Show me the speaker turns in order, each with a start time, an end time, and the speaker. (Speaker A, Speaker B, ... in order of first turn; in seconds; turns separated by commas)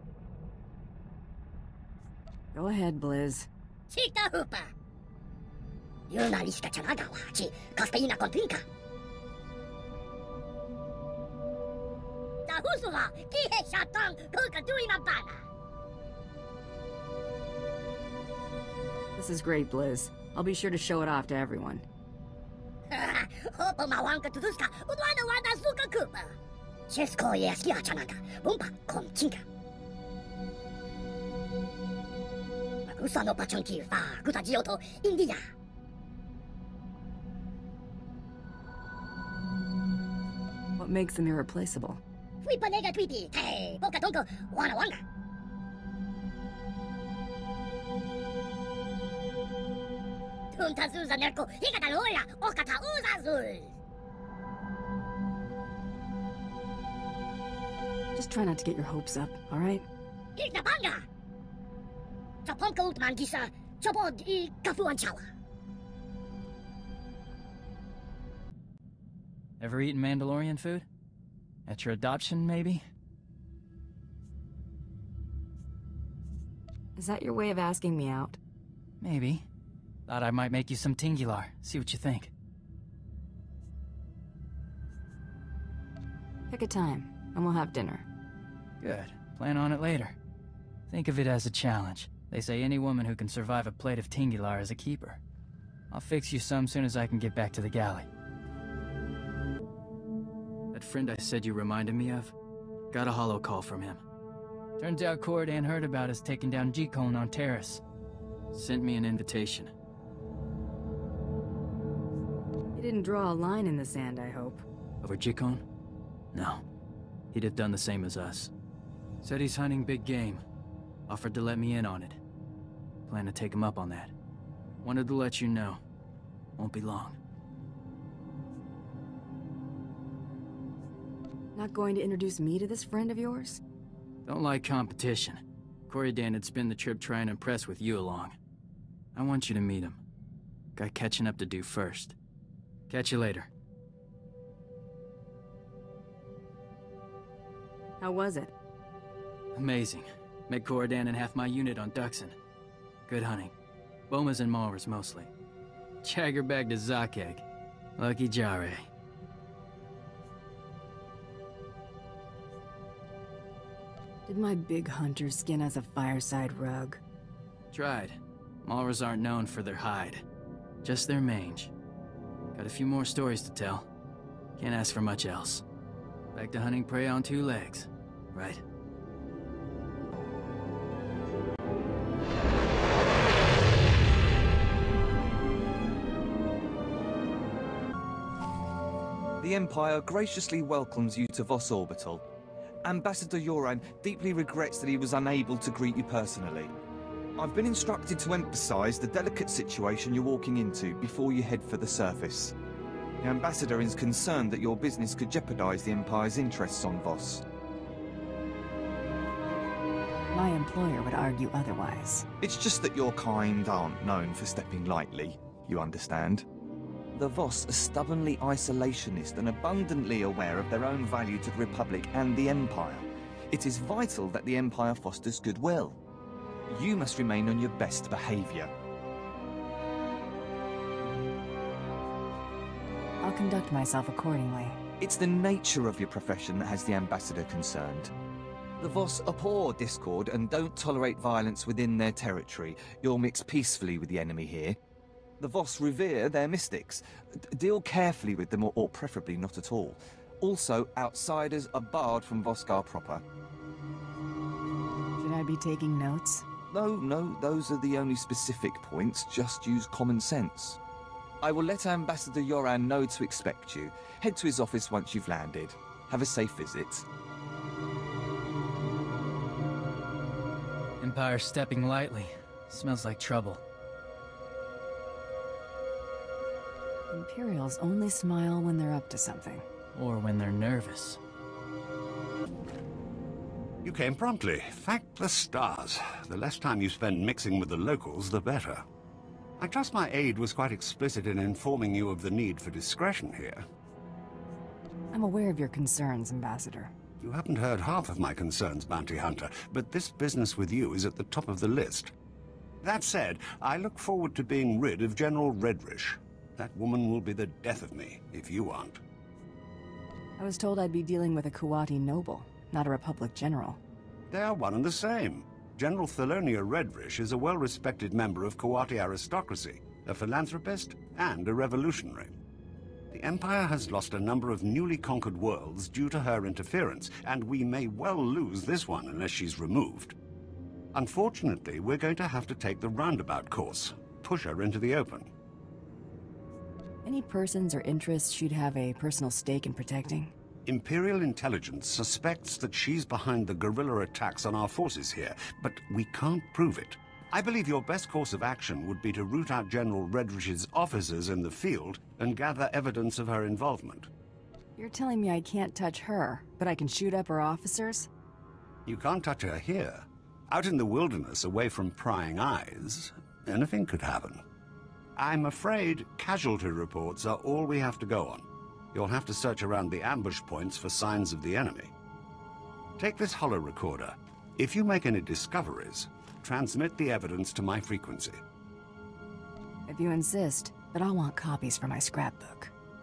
Speaker A: 2.5-3.5, Speaker B: 3.9-4.7, Speaker B: 6.1-8.6, Speaker B: 12.5-15.4, Speaker A: 19.2-21.8, Speaker B: 22.9-26.3, Speaker B: 26.9-29.4, Speaker B: 32.9-35.4, Speaker A: 40.8-42.0, Speaker B: 42.4-45.0, Speaker B: 50.5-53.7, Speaker A: 58.1-59.9, Speaker B: 60.4-61.0, Speaker B: 62.5-65.2, Speaker C: 69.6-70.9, Speaker C: 71.7-72.8, Speaker A: 77.0-78.4, Speaker C: 79.0-79.5, Speaker C: 80.1-82.3, Speaker A: 86.5-88.0, Speaker C: 88.8-90.2, Speaker C: 90.9-95.2, Speaker C: 95.9-98.1, Speaker C: 100.7-102.3, Speaker C: 102.9-104.0, Speaker C: 104.8-107.8, Speaker C: 108.5-109.7, Speaker A: 112.7-114.6, Speaker C: 115.0-115.6, Speaker C: 116.3-116.6, Speaker C: 117.3-118.5, Speaker C: 119.2-120.4, Speaker C: 121.1-122.2, Speaker C: 123.1-124.1, Speaker C: 124.8-125.8, Speaker C: 126.6-127.2, Speaker A: 131.5-133.6, Speaker C: 134.2-138.3, Speaker C: 139.1-140.0, Speaker C: 140.8-142.2, Speaker C: 142.9-143.5, Speaker A: 148.0-148.5, Speaker C: 149.5-152.3, Speaker C: 153.1-153.5, Speaker C: 154.1-155.3, Speaker C: 156.0-157.4, Speaker C: 158.0-158.9, Speaker A: 164.3-167.0, Speaker C: 167.7-170.2, Speaker C: 170.8-171.7, Speaker C: 172.5-173.9, Speaker C: 174.6-175.6, Speaker C: 176.3-178.6, Speaker D: 189.4-192.2, Speaker D: 192.8-196.7, Speaker D: 197.4-202.5, Speaker D: 203.2-207.4, Speaker A: 210.3-212.2, Speaker D: 212.4-216.4, Speaker D: 217.1-226.0, Speaker D: 226.7-228.7, Speaker A: 233.2-234.8, Speaker D: 235.0-238.1, Speaker D: 238.8-244.8, Speaker D: 245.4-247.0, Speaker D: 247.5-253.2, Speaker A: 255.2-256.4, Speaker D: 256.7-260.8, Speaker D: 261.4-267.0, Speaker C: 271.0-273.6, Speaker A: 277.1-279.6, Speaker C: 279.9-281.2, Speaker E: 283.8-288.8, Speaker E: 289.6-293.6, Speaker A: 295.1-296.9, Speaker E: 297.2-302.1, Speaker E: 302.8-309.0, Speaker A: 310.4-313.8, Speaker E: 314.3-322.3, Speaker E: 323.1-330.1, Speaker E: 330.9-335.3, Speaker A: 337.0-340.3, Speaker E: 340.6-354.1, Speaker A: 354.8-358.1, Speaker E: 358.9-364.4, Speaker E: 365.2-371.9, Speaker E: 373.0-378.4, Speaker A: 379.9-382.7